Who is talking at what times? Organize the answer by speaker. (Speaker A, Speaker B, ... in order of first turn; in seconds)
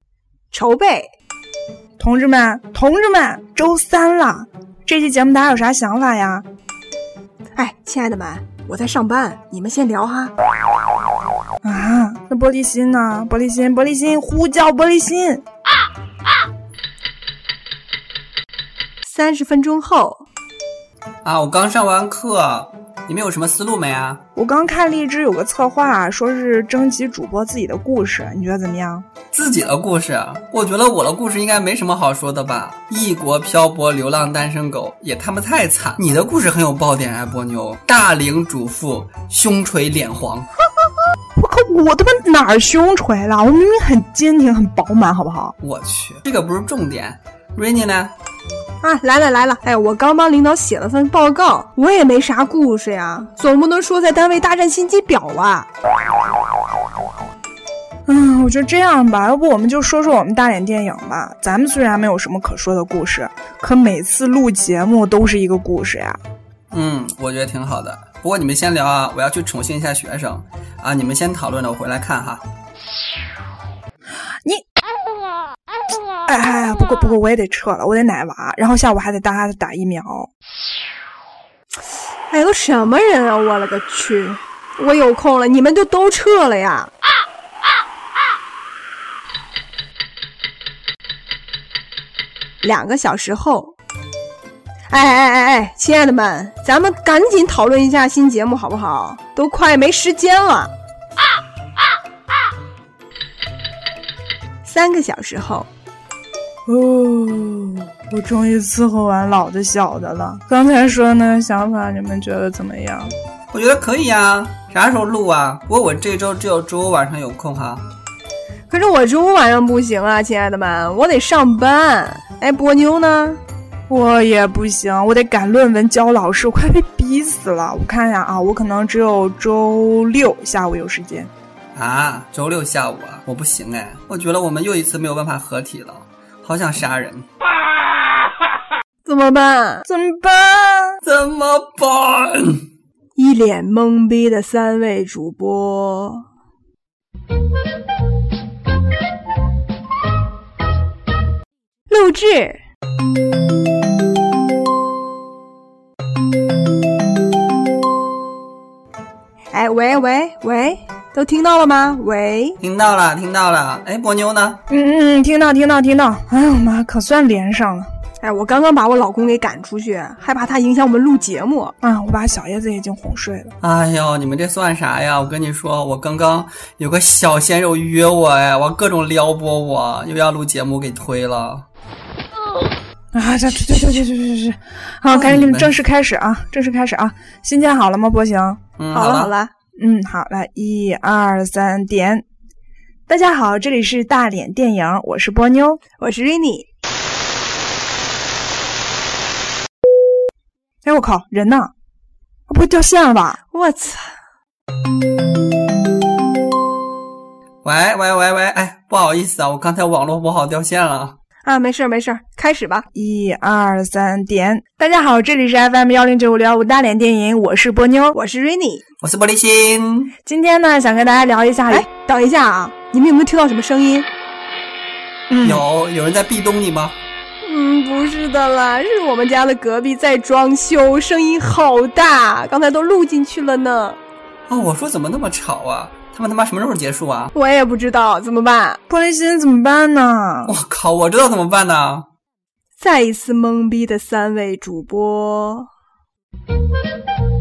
Speaker A: 0.5-1.1, 7.5-10.3, 19.0-20.2, 48.8-55.7, 82.3-86.9, 92.6-93.7, 94.9-100.7, 104.6-105.7, 118.7-123.4, 139.0-139.8, 143.2-146.2, 151.9-152.6, 159.5-162.6, 168.2-171.7, 188.9-189.5, 196.0-196.7, 203.5-204.1, 211.4-212.8, 218.1-218.8, 221.7-224.1, 227.4-234.0, 237.3-238.8, 242.8-245.7
Speaker B: 2.0-6.4, 11.6-15.4, 24.3-29.1, 41.4-45.5, 58.1-66.2, 76.2-80.3, 106.7-113.1, 123.9-131.3, 139.8-141.0, 164.7-167.9, 171.8-173.5, 183.1-188.6, 189.8-192.2, 193.1-195.8, 200.8-201.7, 202.5-203.4, 212.9-218.2, 220.2-221.8, 225.3-225.7, 238.9-240.6
Speaker C: 21.2-24.2, 29.3-40.5, 45.6-48.1, 66.7-72.4, 113.5-117.8, 131.7-137.2, 141.0-142.6, 162.6-164.6, 173.6-181.7, 185.1-185.7, 188.8-189.3, 207.6-211.2, 219.0-220.1, 225.4-227.0, 234.5-237.3, 240.5-242.1